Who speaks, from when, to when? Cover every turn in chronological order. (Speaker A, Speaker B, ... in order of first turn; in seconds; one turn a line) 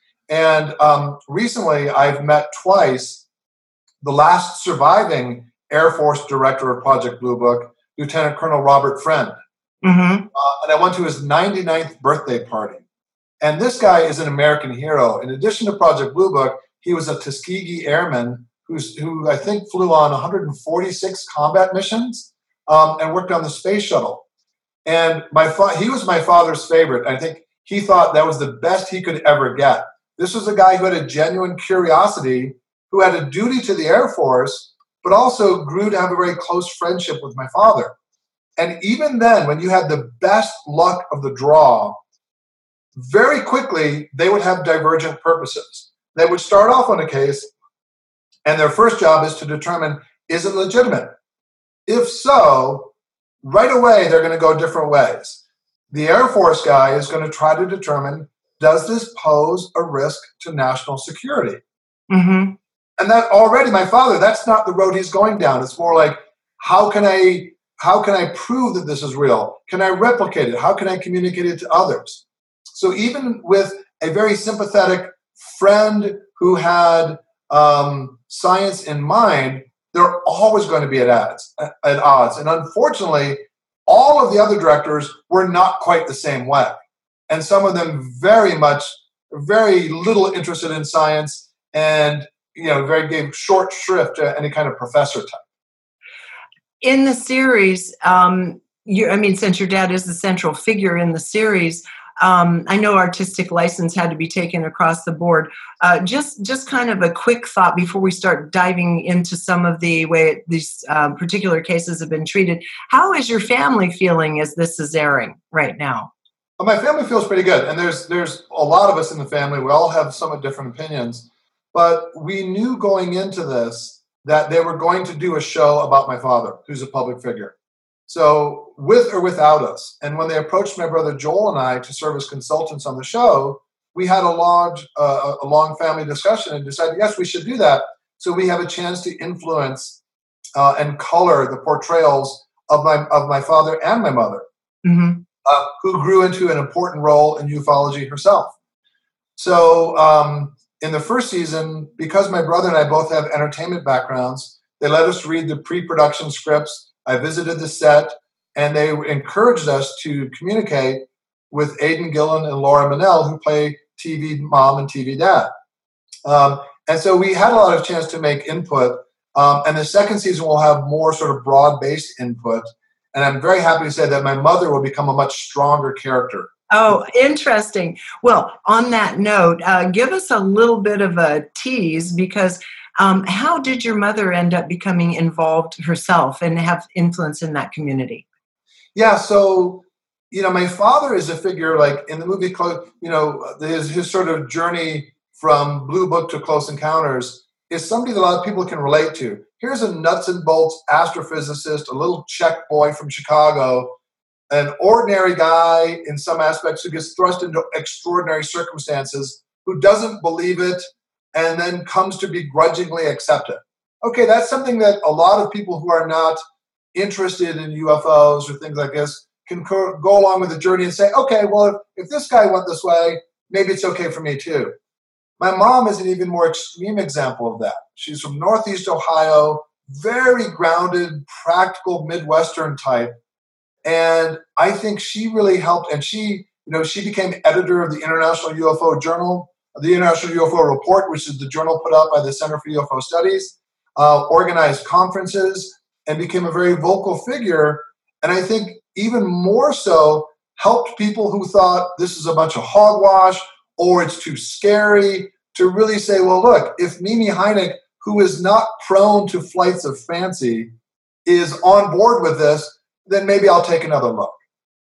Speaker A: 0.3-3.2
Speaker A: 4.0-9.4
Speaker B: 9.8-10.3
Speaker A: 10.3-12.8
Speaker A: 13.4-24.2
Speaker A: 24.9-37.9
Speaker A: 38.6-42.0
Speaker A: 43.0-47.5
Speaker A: 48.5-51.1
Speaker A: 51.9-52.9
Speaker A: 53.4-61.6
Speaker B: 62.1-62.6
Speaker A: 63.0-72.2
Speaker A: 72.7-86.7
Speaker A: 87.3-95.4
Speaker B: 96.8-116.1
Speaker A: 116.6-127.5
Speaker A: 128.1-140.0
Speaker A: 140.6-144.4
Speaker B: 144.8-145.2
Speaker A: 145.4-148.6
Speaker A: 149.4-165.5
Speaker A: 166.2-176.5
Speaker B: 176.7-188.2
Speaker A: 188.9-203.9
Speaker A: 204.5-216.4
Speaker A: 216.9-224.7
Speaker A: 225.4-233.1
Speaker A: 233.8-260.7
Speaker A: 261.3-264.4